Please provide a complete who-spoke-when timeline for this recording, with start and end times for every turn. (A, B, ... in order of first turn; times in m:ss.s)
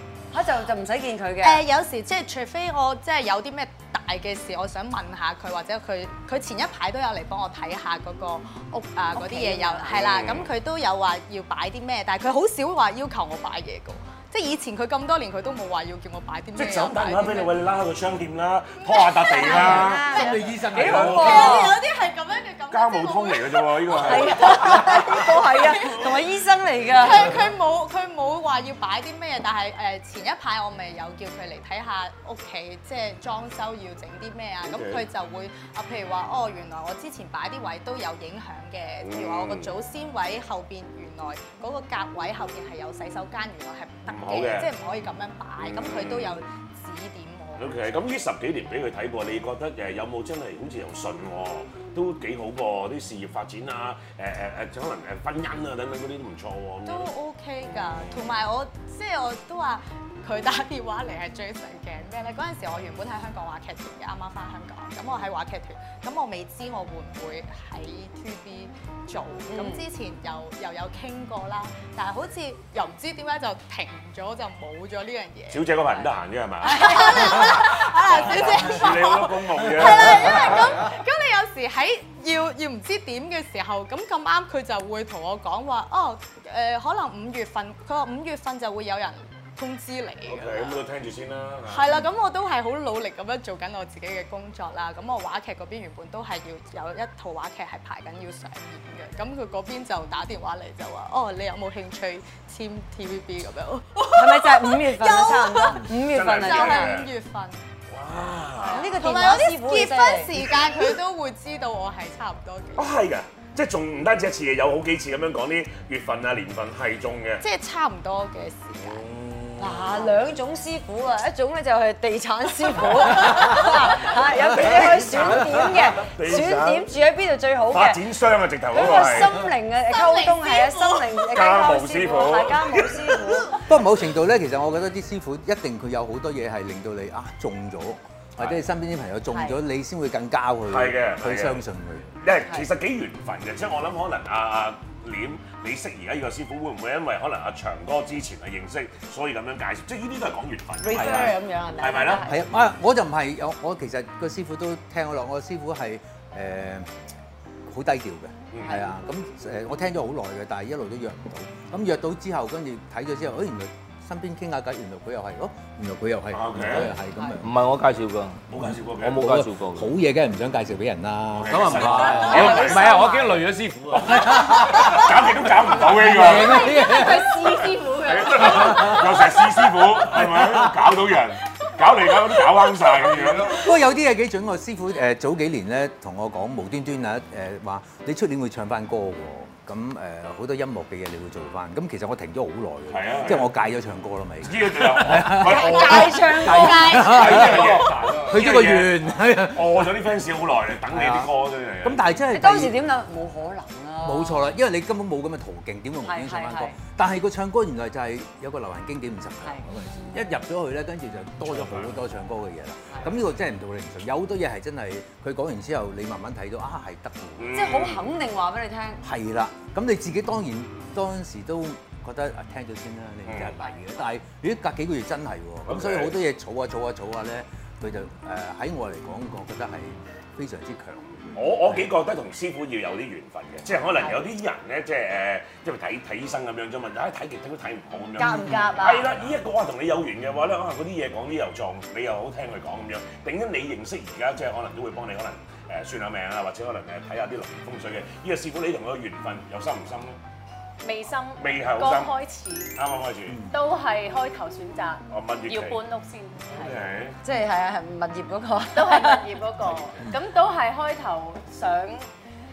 0:00.3-0:01.6 A
0:01.4-0:17.6 B
0:09.1-0:10.0 A
0:09.9-0:10.5 C
0:16.6-0:20.1 C
0:18.8-0:26.2 B
0:19.2-0:21.8 A
0:19.8-0:21.7 D
0:20.8-0:21.6 C
0:22.7-0:25.0 C
0:23.9-0:27.4 A
0:26.9-0:47.9 B
0:34.6-0:35.0 C
0:39.0-0:39.7 C
0:44.1-0:44.7 C
0:45.6-0:46.4 C
0:47.6-0:57.1 C
0:56.8-1:16.0 B
0:57.8-0:58.3 C
1:09.5-1:09.8 A
1:15.5-1:20.8 C
1:16.6-1:30.8 B
1:30.3-1:32.1 C
1:31.7-1:47.6 B
1:44.2-1:46.9 A
1:45.9-1:47.1 C
1:47.9-1:49.0 C
1:48.6-1:52.9 B
1:48.7-1:50.3 A
1:52.8-1:57.4 C
1:57.4-1:59.1 B
1:58.8-2:00.1 C
1:59.6-2:08.0 A
2:04.0-2:06.9 C
2:07.7-2:09.4 C
2:08.7-2:13.6 A
2:10.0-2:10.8 E
2:11.3-2:13.4 C
2:13.7-2:22.1 D
2:19.3-2:19.6 A
2:20.7-2:21.6 C
2:22.2-2:32.2 C
2:30.8-2:32.5 A
2:30.9-2:31.3 D
2:32.2-2:36.9 D
2:37.6-2:47.5 D
2:38.5-2:38.8 C
2:38.6-2:38.9 A
2:46.3-2:46.9 C
2:47.1-2:47.4 A
2:47.4-2:48.4 F
2:48.5-2:49.2 C
2:48.6-2:52.5 D
2:49.0-2:49.9 F
2:51.3-2:52.9 C
2:51.5-2:54.3 F
2:52.2-2:53.4 A
2:53.9-2:56.7 C
2:54.0-2:57.6 D
2:56.5-2:59.0 E
2:57.9-3:03.6 C
2:58.4-3:00.9 D
3:03.1-3:03.5 F
3:03.4-3:20.1 D
3:12.9-3:13.5 C
3:14.4-3:22.0 C
3:15.3-3:17.4 A
3:17.1-3:18.5 F
3:20.7-3:22.8 D
3:22.3-3:24.4 A
3:24.0-3:37.8 D
3:26.0-3:26.7 A
3:31.4-3:31.9 C
3:37.4-3:38.0 C
3:37.5-3:39.0 A
3:39.0-3:51.9 D
3:43.2-3:43.6 C
3:45.6-3:46.1 C
3:51.3-4:10.2 C
3:58.2-3:59.2 A
4:10.8-4:12.7 E
4:11.4-4:12.1 C
4:12.8-4:13.4 C
4:13.5-4:16.9 E
4:15.1-4:15.8 C
4:16.5-4:17.2 C
4:17.2-4:19.4 A
4:18.7-4:22.0 E